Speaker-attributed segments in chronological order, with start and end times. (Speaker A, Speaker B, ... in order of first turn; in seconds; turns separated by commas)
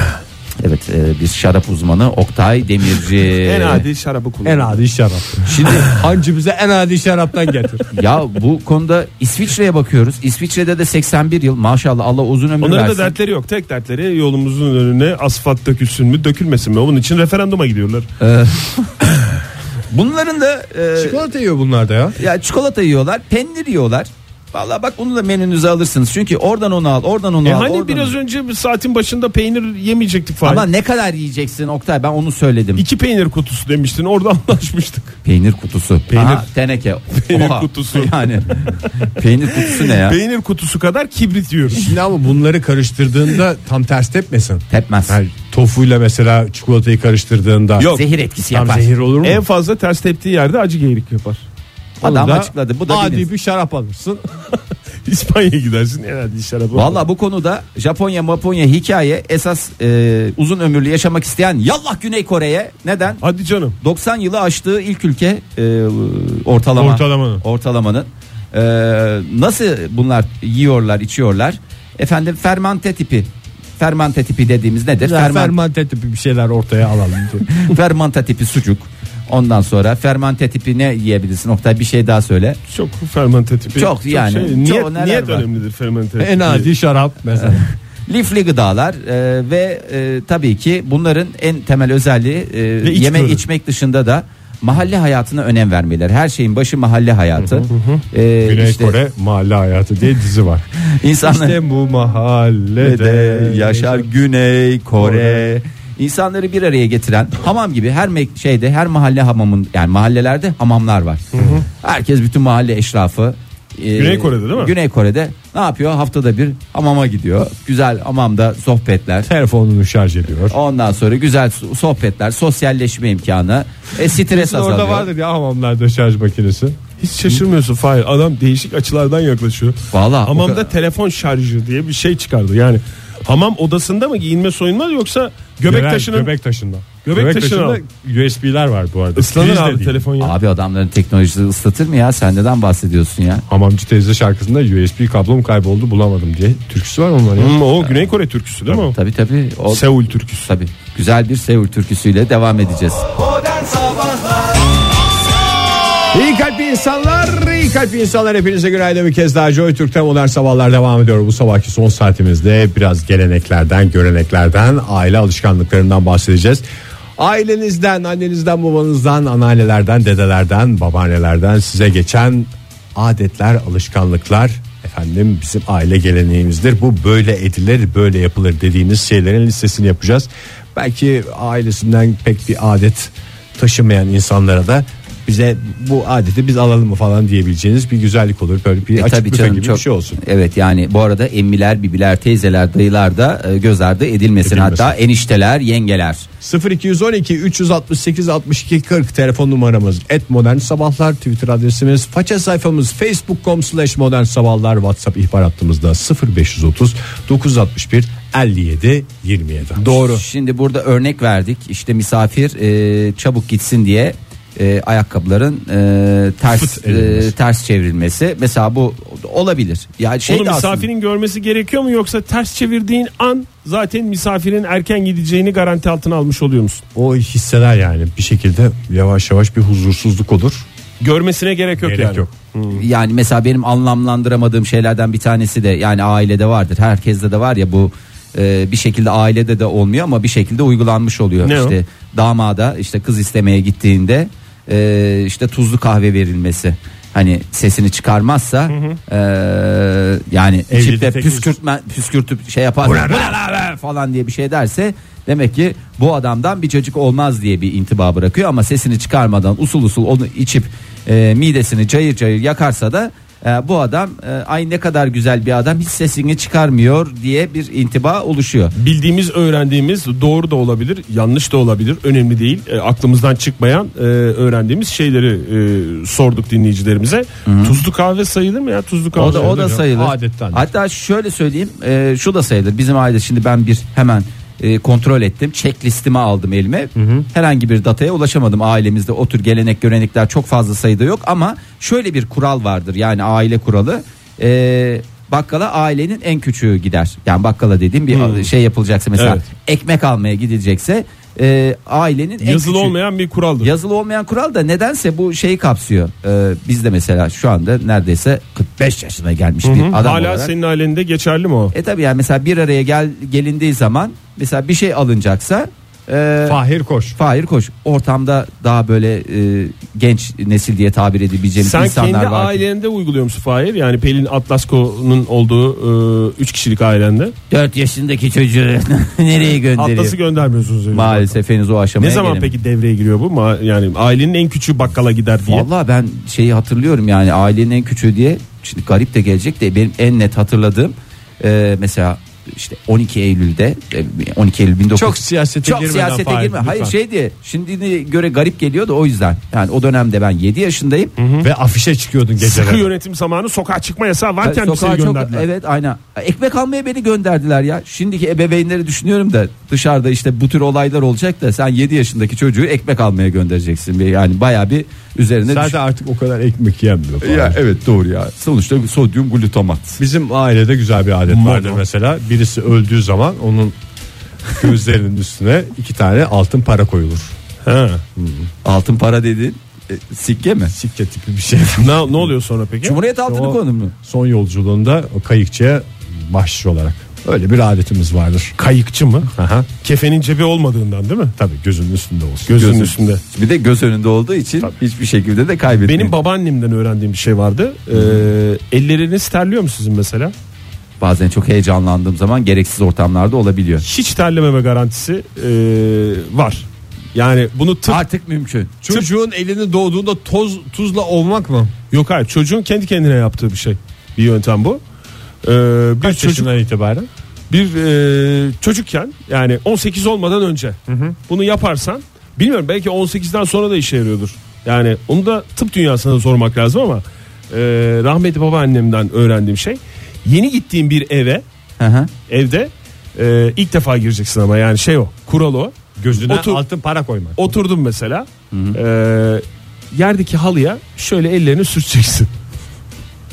Speaker A: 0.6-3.8, Speaker B: 3.3-4.8, Speaker C: 4.4-7.8, Speaker A: 5.5-5.9, Speaker A: 7.9-13.1, Speaker B: 12.6-18.1, Speaker A: 18.2-19.0, Speaker A: 19.9-21.2, Speaker C: 20.9-22.2, Speaker A: 22.2-28.1, Speaker B: 27.4-30.6, Speaker A: 30.4-32.8, Speaker B: 32.8-35.2, Speaker A: 35.2-40.2, Speaker B: 36.1-36.5, Speaker B: 37.1-42.0, Speaker C: 41.8-47.9, Speaker A: 44.7-45.2, Speaker A: 47.8-48.9, Speaker C: 48.5-49.4, Speaker B: 49.2-51.4, Speaker A: 52.0-53.3, Speaker C: 52.0-54.2, Speaker B: 55.0-57.0, Speaker A: 56.7-63.2, Speaker B: 63.2-63.8, Speaker A: 63.8-75.5, Speaker C: 66.8-67.4, Speaker C: 75.0-77.5, Speaker A: 77.5-82.6, Speaker B: 82.7-86.7, Speaker A: 83.7-85.5, Speaker C: 86.2-87.7, Speaker A: 87.4-99.0, Speaker B: 92.8-93.4, Speaker C: 97.3-97.7, Speaker B: 97.7-98.0, Speaker C: 98.4-100.7, Speaker A: 100.8-101.6, Speaker C: 101.2-104.1, Speaker A: 102.8-119.3, Speaker C: 105.0-105.5, Speaker B: 111.3-111.6, Speaker B: 114.0-114.7, Speaker C: 119.2-120.6, Speaker A: 120.5-125.1, Speaker C: 124.0-126.8, Speaker B: 127.0-136.3, Speaker A: 129.9-130.7, Speaker C: 135.7-140.1, Speaker B: 137.1-137.8, Speaker B: 139.2-140.3, Speaker A: 140.2-143.4, Speaker C: 143.5-147.5, Speaker B: 147.4-149.0, Speaker A: 148.7-149.9, Speaker B: 149.7-150.5, Speaker A: 150.4-153.1, Speaker C: 153.5-154.0, Speaker C: 156.1-166.6, Speaker C: 167.2-190.2, Speaker A: 188.9-196.3, Speaker C: 194.4-195.0, Speaker C: 196.4-210.0, Speaker B: 209.8-210.2, Speaker A: 209.9-220.9, Speaker C: 216.5-217.3, Speaker B: 220.3-226.8, Speaker C: 226.9-230.7, Speaker B: 231.0-232.8, Speaker C: 231.8-232.3, Speaker A: 232.7-268.7, Speaker B: 241.4-241.8, Speaker B: 248.7-249.0, Speaker C: 250.7-251.5, Speaker C: 252.8-253.4, Speaker B: 268.8-279.7, Speaker A: 277.4-277.8, Speaker A: 279.1-302.9, Speaker C: 279.2-280.7, Speaker C: 286.9-287.3, Speaker B: 298.1-298.5, Speaker B: 299.1-299.4, Speaker B: 302.4-303.7, Speaker A: 303.6-310.5, Speaker B: 309.6-311.7, Speaker A: 311.7-316.6, Speaker C: 316.4-317.2, Speaker A: 317.1-322.6, Speaker B: 321.6-327.3, Speaker A: 327.5-330.1, Speaker B: 329.8-331.4, Speaker A: 330.9-332.5, Speaker B: 332.0-335.7, Speaker A: 335.4-351.1, Speaker C: 344.9-346.9, Speaker B: 351.2-351.5, Speaker C: 351.4-352.9, Speaker B: 352.4-355.4, Speaker A: 354.4-365.8, Speaker C: 365.4-367.6, Speaker A: 367.2-370.0, Speaker C: 370.0-373.8, Speaker B: 371.3-371.8, Speaker C: 374.6-377.3, Speaker B: 377.6-378.0, Speaker C: 378.1-378.5, Speaker A: 378.6-380.7, Speaker C: 380.7-382.3, Speaker B: 381.8-383.0, Speaker A: 382.8-383.9, Speaker C: 383.2-388.5, Speaker B: 388.6-389.3, Speaker C: 389.3-389.7, Speaker B: 389.8-391.3, Speaker C: 391.4-392.8, Speaker B: 392.5-393.2, Speaker A: 392.6-396.1, Speaker B: 395.8-400.3, Speaker A: 397.9-398.3, Speaker A: 401.0-403.8, Speaker B: 403.8-408.0, Speaker A: 407.9-408.8, Speaker C: 408.8-411.7, Speaker B: 411.9-414.8, Speaker B: 415.4-416.5, Speaker C: 416.0-417.1, Speaker B: 417.5-420.8, Speaker C: 420.9-421.2, Speaker B: 421.3-431.4, Speaker A: 431.8-432.1, Speaker B: 432.3-436.6, Speaker C: 436.0-437.5, Speaker B: 437.4-442.3, Speaker A: 438.5-438.8